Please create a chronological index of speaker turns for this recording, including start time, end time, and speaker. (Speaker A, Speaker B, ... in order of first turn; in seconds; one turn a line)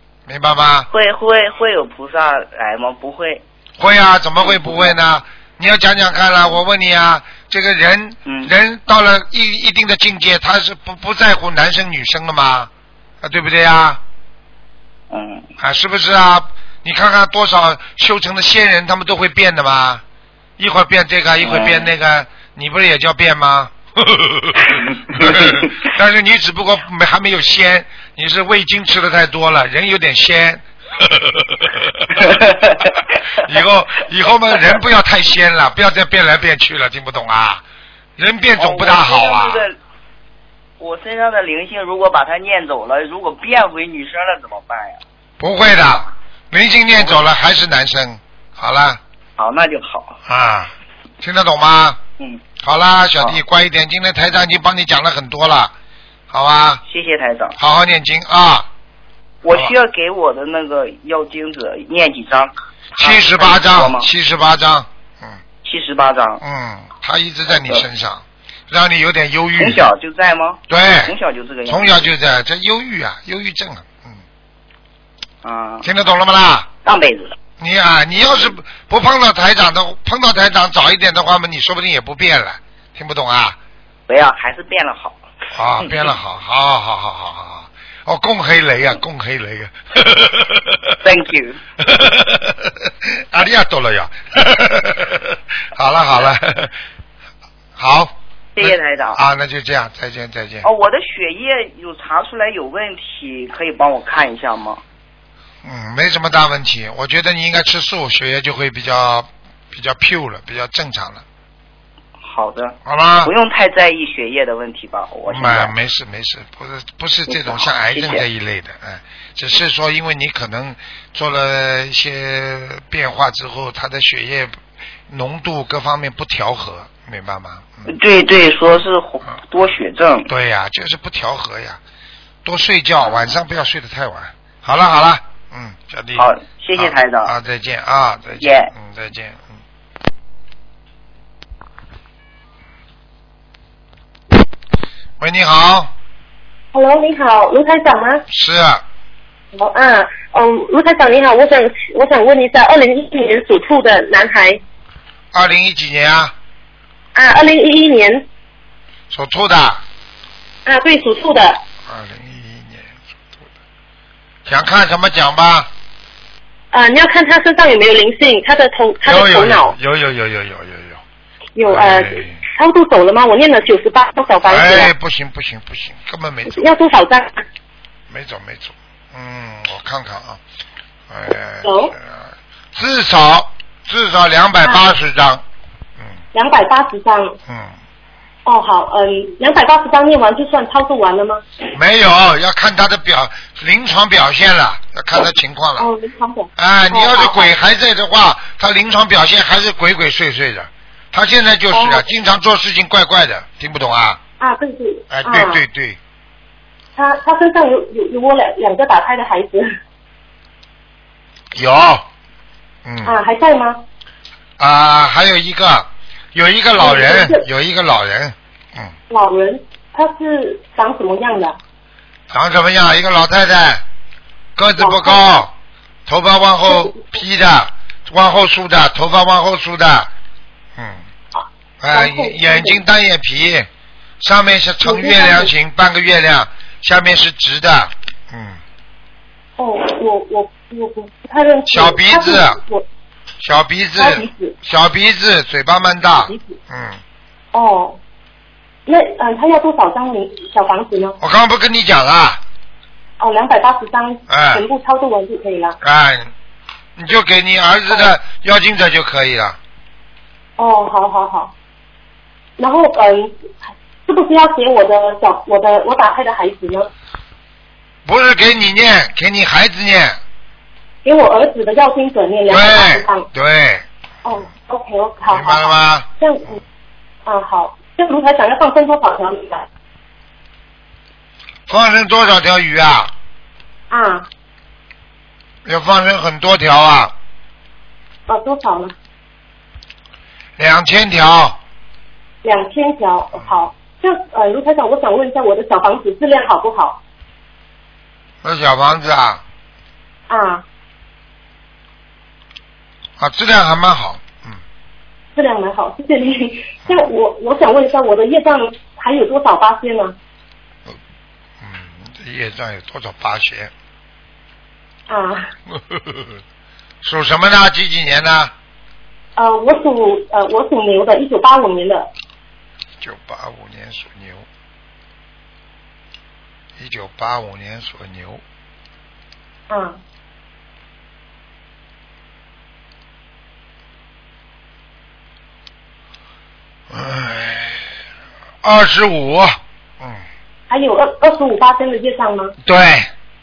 Speaker A: 0.3-0.9
Speaker B: 0.9-3.4
Speaker A: 3.8-12.7
Speaker B: 4.4-5.0
Speaker B: 8.2-8.5
Speaker A: 13.2-14.0
Speaker B: 15.1-15.4
Speaker A: 15.6-20.0
Speaker A: 20.6-24.6
Speaker B: 21.4-21.9
Speaker B: 24.8-25.6
Speaker A: 25.1-31.7
Speaker B: 32.2-32.9
Speaker A: 33.4-37.6
Speaker A: 38.2-39.6
Speaker B: 38.6-39.8
Speaker B: 40.8-45.0
Speaker A: 45.4-49.0
Speaker B: 49.4-50.2
Speaker A: 50.2-52.0
Speaker A: 52.6-55.7
Speaker A: 56.3-56.8
Speaker B: 56.9-57.6
Speaker A: 57.6-58.7
Speaker B: 59.4-64.1
Speaker A: 63.0-65.4
Speaker B: 65.6-66.4
Speaker A: 66.4-69.9
Speaker B: 67.5-67.8
Speaker B: 69.6-72.1
Speaker A: 70.7-71.1
Speaker A: 71.7-74.2
Speaker B: 75.4-75.8
Speaker A: 75.8-76.7
Speaker B: 76.8-77.3
Speaker A: 77.6-83.6
Speaker B: 84.1-85.2
Speaker A: 85.5-90.8
Speaker B: 91.0-91.6
Speaker A: 91.8-96.8
Speaker A: 97.8-100.7
Speaker B: 98.5-99.2
Speaker B: 100.6-104.8
Speaker A: 105.6-111.2
Speaker B: 112.2-115.7
Speaker A: 112.8-113.3
Speaker A: 115.3-127.9
Speaker B: 117.3-118.2
Speaker B: 127.8-130.3
Speaker A: 130.3-131.8
Speaker A: 132.4-139.6
Speaker B: 136.2-137.3
Speaker B: 138.4-138.7
Speaker A: 145.2-145.9
Speaker C: 146.7-148.2
Speaker A: 148.3-148.8
Speaker C: 149.5-154.6
Speaker A: 155.3-156.3
Speaker C: 157.1-158.2
Speaker A: 159.1-159.8
Speaker C: 160.6-161.6
Speaker A: 161.9-163.4
Speaker A: 164.4-165.7
Speaker C: 166.7-169.8
Speaker A: 169.0-171.0
Speaker C: 171.6-174.9
Speaker A: 171.7-172.4
Speaker A: 174.5-176.7
Speaker C: 176.5-177.4
Speaker A: 178.1-180.4
Speaker A: 181.1-185.4
Speaker C: 181.6-181.9
Speaker C: 186.3-187.4
Speaker A: 187.5-187.8
Speaker C: 188.4-191.4
Speaker A: 191.7-195.9
Speaker C: 195.8-197.6
Speaker A: 196.6-204.2
Speaker C: 201.7-202.1
Speaker C: 204.4-205.6
Speaker A: 205.1-206.0
Speaker C: 206.9-209.7
Speaker A: 211.5-212.1
Speaker A: 212.8-213.2
Speaker C: 213.0-213.8
Speaker A: 214.6-218.9
Speaker C: 216.8-217.4
Speaker C: 219.1-221.6
Speaker A: 222.3-223.8
Speaker A: 224.6-225.5
Speaker C: 224.8-225.4
Speaker A: 226.1-230.1
Speaker C: 226.7-227.0
Speaker A: 230.8-231.1
Speaker C: 231.3-232.8
Speaker A: 231.8-233.7
Speaker A: 234.2-238.6
Speaker C: 234.8-235.5
Speaker C: 239.6-242.8
Speaker A: 241.7-242.6
Speaker A: 243.4-247.0
Speaker C: 244.0-244.5
Speaker C: 246.2-246.5
Speaker C: 247.5-248.0
Speaker C: 248.8-251.2
Speaker A: 251.2-252.4
Speaker C: 253.2-255.8
Speaker A: 254.3-254.6
Speaker A: 255.8-256.3
Speaker A: 256.9-259.6
Speaker C: 260.6-261.5
Speaker C: 262.6-266.9
Speaker A: 268.0-270.2
Speaker C: 271.0-273.3
Speaker A: 272.5-273.9
Speaker C: 274.2-276.6
Speaker A: 275.3-276.1
Speaker C: 277.2-279.6
Speaker A: 281.7-283.1
Speaker C: 283.9-284.3
Speaker A: 285.6-287.1
Speaker C: 288.3-288.9
Speaker A: 290.6-291.6
Speaker C: 292.4-297.0
Speaker A: 298.4-299.4
Speaker C: 300.3-300.6
Speaker A: 303.2-304.6
Speaker C: 305.3-310.1
Speaker A: 311.6-313.7
Speaker C: 315.1-315.5
Speaker A: 315.7-316.4
Speaker A: 317.0-318.5
Speaker C: 319.4-322.1
Speaker A: 323.0-324.4
Speaker A: 326.8-328.4
Speaker C: 329.7-330.0
Speaker A: 336.9-337.9
Speaker A: 338.6-340.2
Speaker C: 340.7-342.5
Speaker A: 342.6-343.1